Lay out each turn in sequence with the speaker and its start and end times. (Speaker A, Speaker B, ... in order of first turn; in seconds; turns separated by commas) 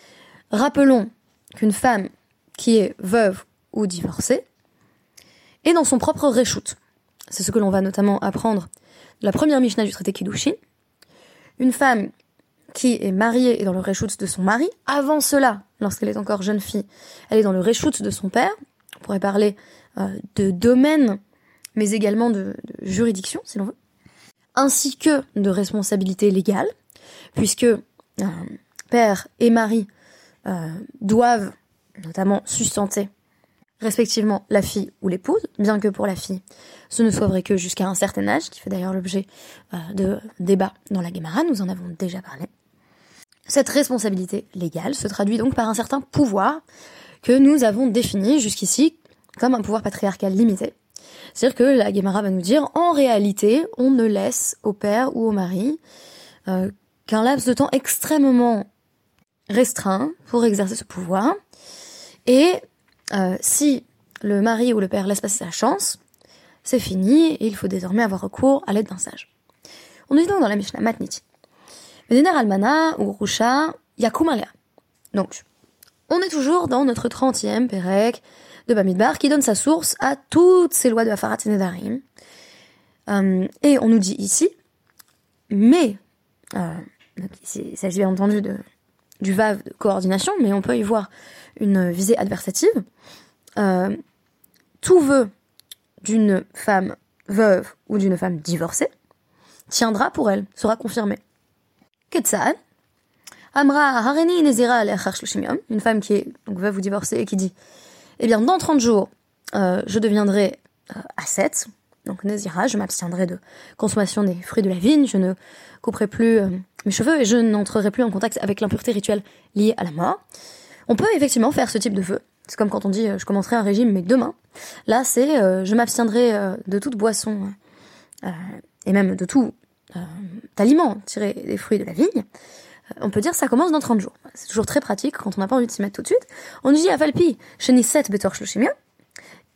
Speaker A: 0.5-4.4, Speaker A: 5.6-6.8, Speaker A: 7.3-8.7, Speaker A: 9.2-10.6, Speaker A: 11.6-12.1, Speaker A: 12.7-21.2, Speaker A: 21.8-23.7, Speaker A: 24.6-26.7, Speaker A: 27.3-29.9, Speaker A: 30.4-33.1, Speaker A: 33.8-42.5, Speaker A: 43.5-46.6, Speaker A: 47.2-50.7, Speaker A: 51.3-55.8, Speaker A: 56.5-58.7, Speaker A: 59.5-61.4, Speaker A: 62.2-62.6, Speaker A: 63.1-66.0, Speaker A: 66.6-69.3, Speaker A: 70.1-71.2, Speaker A: 72.1-74.5, Speaker A: 75.1-75.4, Speaker A: 76.1-82.0, Speaker A: 83.1-84.5, Speaker A: 85.5-86.0, Speaker A: 86.5-88.6, Speaker A: 89.2-92.8, Speaker A: 93.6-94.0, Speaker A: 94.8-95.3, Speaker A: 96.0-98.9, Speaker A: 99.7-101.2, Speaker A: 102.1-102.6, Speaker A: 103.5-107.5, Speaker A: 108.2-120.2, Speaker A: 120.9-124.3, Speaker A: 124.9-127.5, Speaker A: 128.2-132.2, Speaker A: 133.0-138.7